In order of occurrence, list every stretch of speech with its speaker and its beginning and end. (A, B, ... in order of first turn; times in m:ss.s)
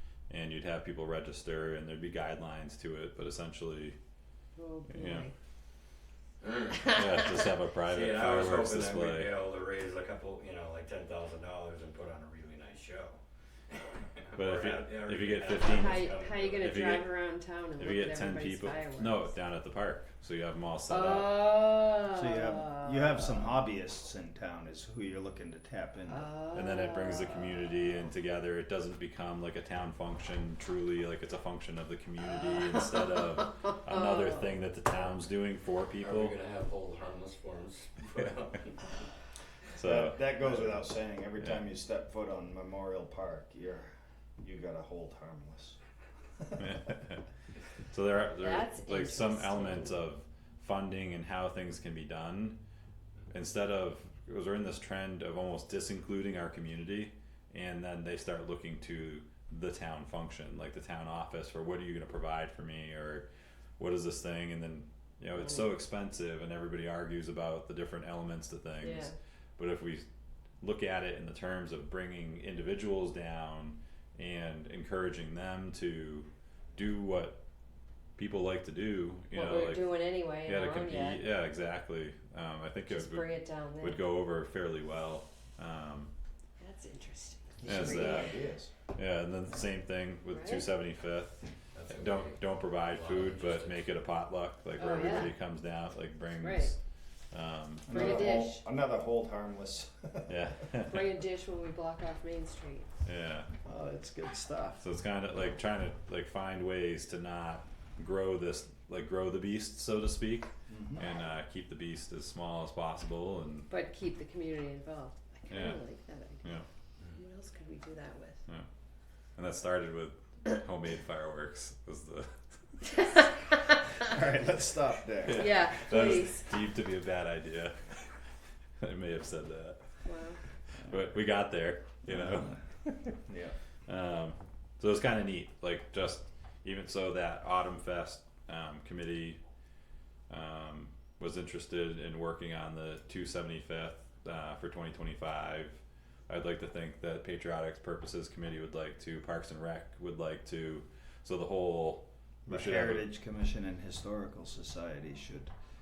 0:00.3-0:04.0 A
0:04.6-0:05.3 B
0:04.9-0:05.3 A
0:06.4-0:07.1 C
0:06.8-0:09.4 A
0:07.8-0:13.2 C
0:13.7-0:16.8 C
0:14.3-0:16.1 A
0:15.7-0:19.3 B
0:16.6-0:17.2 A
0:17.8-0:21.6 A
0:20.9-0:23.3 B
0:22.0-0:26.3 D
0:26.1-0:27.6 B
0:26.5-0:36.3 A
0:33.7-0:34.4 B
0:36.0-0:39.0 C
0:39.7-0:40.8 A
0:39.8-0:45.8 D
0:41.4-0:41.6 A
0:46.4-0:46.7 D
0:46.6-0:47.2 A
0:47.9-0:52.6 A
0:48.3-0:50.0 B
0:53.3-1:03.3 A
1:03.8-1:10.0 A
1:08.8-1:09.1 B
1:10.6-1:17.4 A
1:18.2-1:26.1 A
1:19.3-1:21.2 B
1:22.9-1:24.0 B
1:26.6-1:28.4 B
1:27.6-1:28.7 D
1:27.6-1:28.3 A
1:28.9-1:36.8 A
1:30.3-1:30.7 B
1:31.7-1:33.9 C
1:34.8-1:35.3 B
1:36.3-1:36.7 B
1:37.3-1:38.4 A
1:37.9-1:40.5 D
1:37.9-1:38.6 B
1:40.3-1:41.1 A
1:40.9-1:42.9 B
1:43.0-1:43.5 A
1:43.6-1:44.8 D
1:44.8-1:53.7 A
1:50.7-1:51.0 D
1:53.7-1:56.5 B
1:55.5-1:55.8 A
1:57.1-1:58.4 B
1:59.4-2:02.4 A
2:03.0-2:03.8 B
2:04.0-2:05.6 D
2:05.2-2:08.2 A
2:05.3-2:06.5 B
2:08.8-2:10.0 A
2:10.0-2:10.4 B
2:10.8-2:13.2 A
2:13.3-2:13.6 D
2:13.9-2:19.4 A
2:20.3-2:33.1 A
2:32.5-2:35.5 D